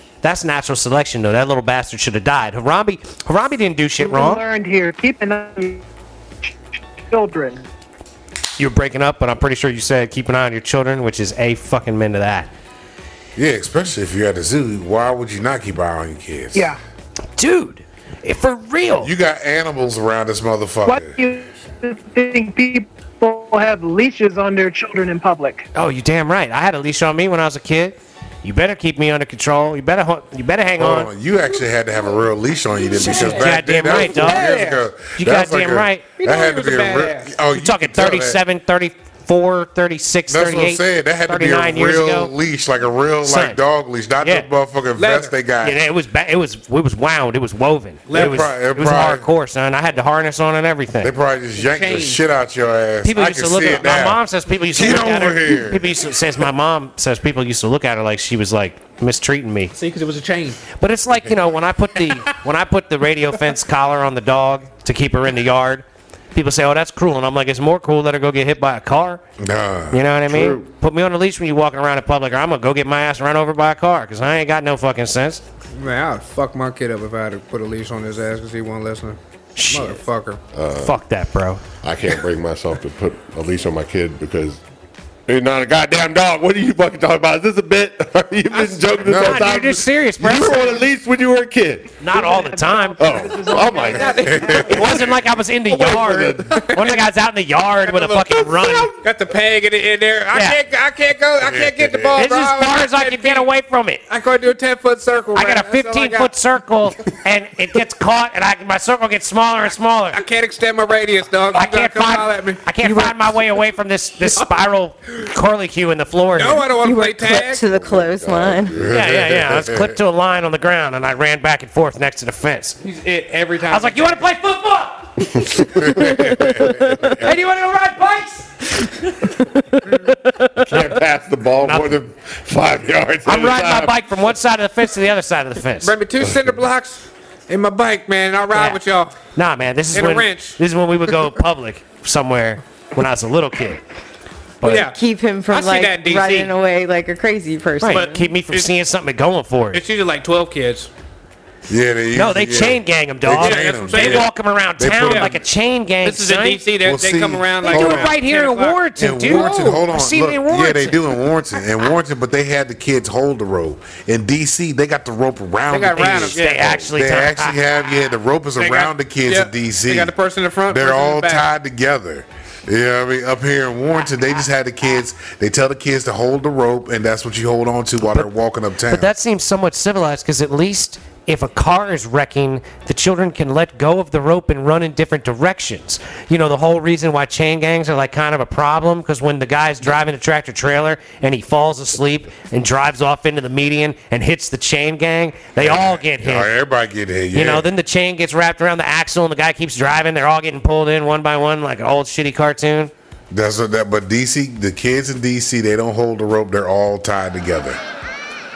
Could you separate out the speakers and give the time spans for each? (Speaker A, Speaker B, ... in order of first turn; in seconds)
Speaker A: 0.2-4.4, 8.6-12.5, 17.4-19.1, 25.7-31.1, 33.0-34.5, 35.2-36.0, 37.5-42.3, 43.2-43.6, 44.2-44.5, 45.6-51.1, 53.0-59.7, 60.8-69.2, 69.9-75.4, 79.6-80.0, 80.8-81.6, 89.0-90.8, 92.0-93.3, 94.5-98.9, 100.3-100.6, 102.2-104.0, 105.3-110.2, 111.5-116.7, 118.9-122.8, 123.7-125.4, 129.9-131.0, 131.6-131.9, 133.2-135.9, 138.5-138.8, 139.3-143.8, 147.8-149.8, 152.1-156.6, 157.6-161.0, 166.0-167.6, 178.0-178.3, 178.9-196.5, 197.3-202.9
Speaker B: 4.0-5.8, 7.1-7.7, 20.9-25.7, 92.1-94.7
Speaker C: 13.4-16.7, 19.0-21.2, 30.8-38.4, 40.3-45.8, 48.1-49.3, 51.0-54.2, 54.7-56.1, 69.4-70.0, 89.0-89.6, 94.2-95.2, 101.4-102.2, 118.8-120.0, 125.8-127.3, 151.7-155.4, 156.8-158.2, 159.0-170.1, 170.7-179.1, 195.6-197.7, 203.3-207.8
Speaker D: 32.9-34.9, 36.2-37.4, 45.0-45.3, 48.1-48.5, 51.6-52.2, 59.8-60.6, 75.8-79.2, 79.7-80.4, 93.8-95.0, 96.5-97.0, 97.8-103.5, 104.1-106.3, 110.1-113.1, 114.3-114.5, 116.4-117.6, 122.8-124.2, 127.2-128.7, 135.8-139.2, 139.9-140.6, 144.6-145.0, 145.5-146.5, 147.9-148.7, 149.7-150.9, 153.3-154.3, 155.0-155.4, 156.0-159.9, 165.7-166.9, 168.6-171.5
Speaker E: 70.3-70.7, 80.5-81.0, 81.8-84.6, 85.3-92.0, 93.0-94.8, 95.7-96.7, 117.7-119.0, 125.4-126.0, 130.6-134.0
Speaker F: 116.8-118.8, 126.3-127.0, 144.7-148.2